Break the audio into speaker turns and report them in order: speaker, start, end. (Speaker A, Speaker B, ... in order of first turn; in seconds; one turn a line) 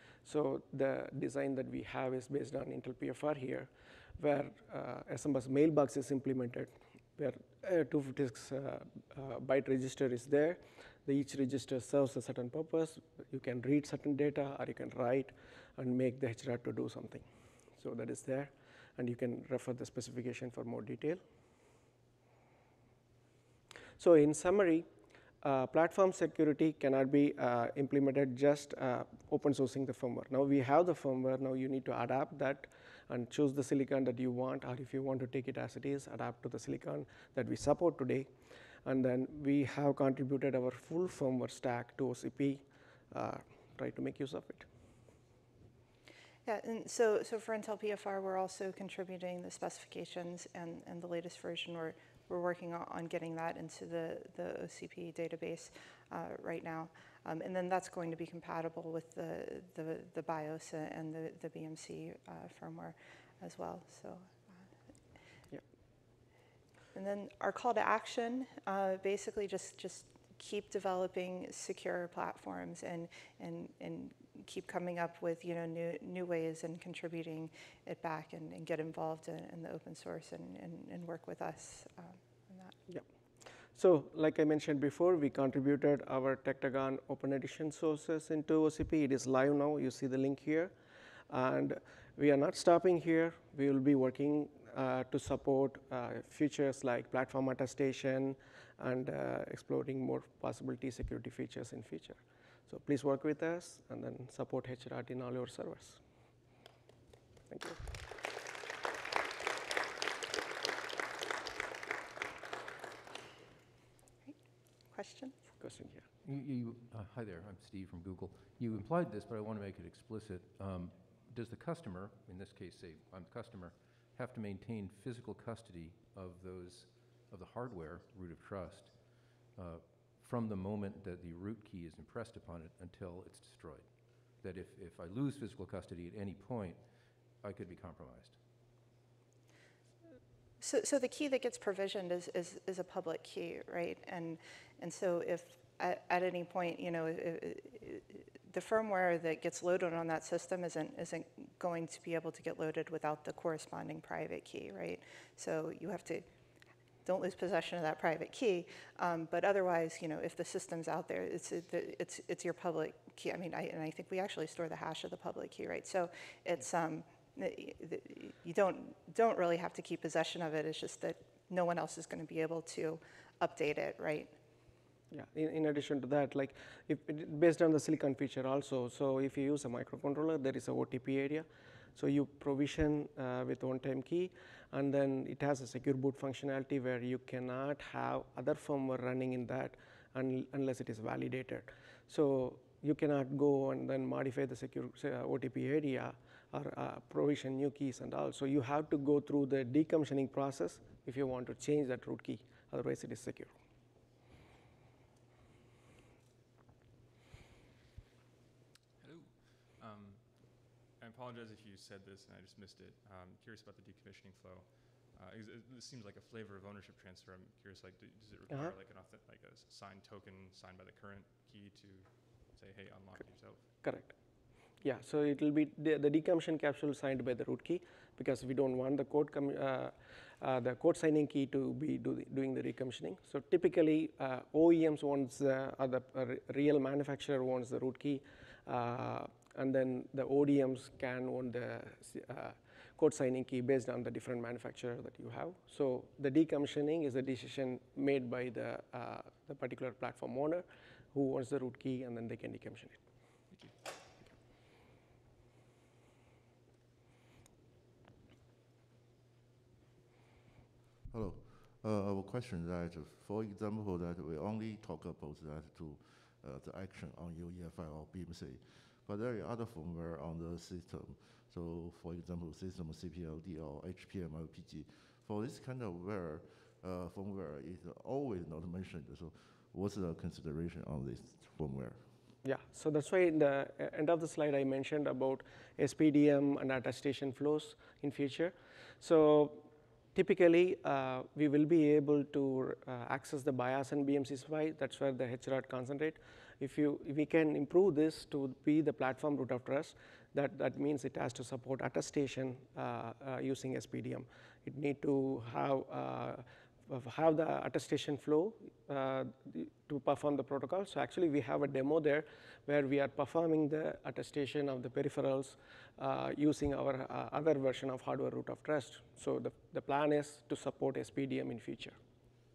Speaker A: 0.2-17.3
Speaker A: 17.8-21.2
Speaker A: 24.0-24.9
Speaker A: 25.4-38.3
Speaker A: 38.9-44.7
Speaker B: 46.5-64.3
Speaker B: 66.9-82.8
Speaker A: 83.7-90.7
Speaker A: 91.3-106.0
Speaker A: 107.5-107.8
Speaker B: 114.9-115.4
Speaker A: 115.6-116.0
Speaker C: 116.2-133.9
Speaker C: 134.4-136.9
Speaker C: 137.4-138.4
Speaker B: 140.6-156.2
Speaker B: 157.1-174.3
Speaker A: 175.1-203.5
Speaker D: 209.0-223.8
Speaker A: 223.7-224.2
Speaker A: 224.8-253.0
Speaker D: 253.5-253.8
Speaker E: 261.1-282.1
Speaker A: 282.4-322.0